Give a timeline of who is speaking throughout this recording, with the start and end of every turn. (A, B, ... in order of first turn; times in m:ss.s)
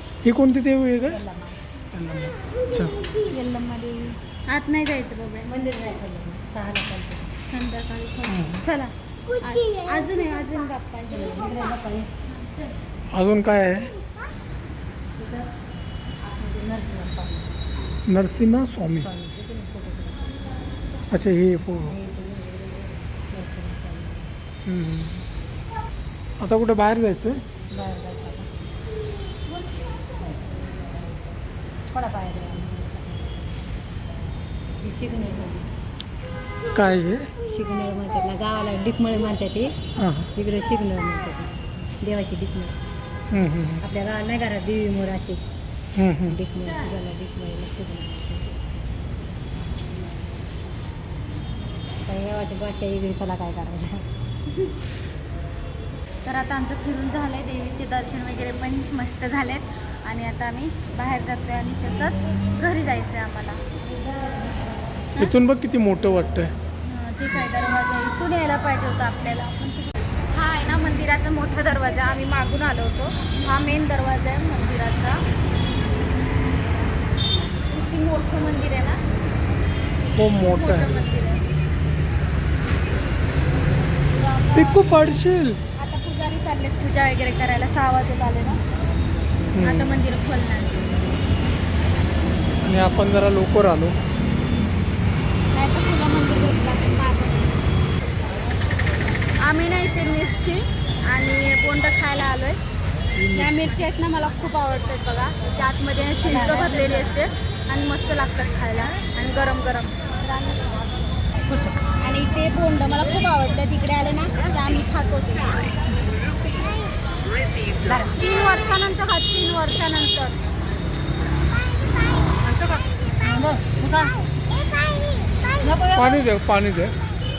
0:00.2-0:01.2 A
0:01.0-0:01.6 B
0:01.9-0:02.9 A
0:03.0-0:05.5 C
0:05.4-0:07.3 B
0:07.5-0:11.6 C
0:08.3-0:08.6 A
0:11.1-0:12.1 B
0:12.2-0:12.8 C
0:13.1-0:13.9 A
0:15.2-0:15.5 B
0:16.2-0:17.5 B
0:18.1-0:19.1 A
0:18.8-0:20.5 B
0:21.1-0:21.9 A
0:21.8-0:24.3 B
0:24.6-0:25.2 A
0:26.4-0:27.4 A
0:27.7-0:28.5 B
0:30.3-0:31.2 B
0:31.9-0:33.7 B
0:34.8-0:35.7 B
0:36.7-0:37.3 A
0:37.4-0:39.7 B
0:40.0-0:40.3 A
0:40.3-0:42.7 B
0:43.3-0:43.8 A
0:43.8-0:45.4 B
0:46.0-0:46.4 A
0:46.3-0:48.6 B
0:52.0-0:54.0 B
0:56.2-1:03.6 C
1:03.8-1:05.1 B
1:05.2-1:06.5 A
1:06.8-1:15.2 C
1:17.7-1:19.0 C
1:20.2-1:20.9 A
1:20.4-1:21.4 C
1:24.0-1:25.2 C
1:24.5-1:25.6 A
1:25.8-1:28.6 C
1:29.5-1:30.0 A
1:29.6-1:31.0 C
1:32.6-1:34.0 A
1:35.5-1:37.6 C
1:39.4-1:42.6 C
1:43.2-1:43.7 A
1:43.3-1:50.0 C
1:46.2-1:47.2 B
1:50.2-1:51.8 B
1:52.0-1:55.7 C
1:57.8-1:58.2 B
1:58.1-2:00.4 C
2:02.4-2:02.8 C
2:03.2-2:04.1 B
2:05.6-2:06.2 B
2:05.9-2:06.9 A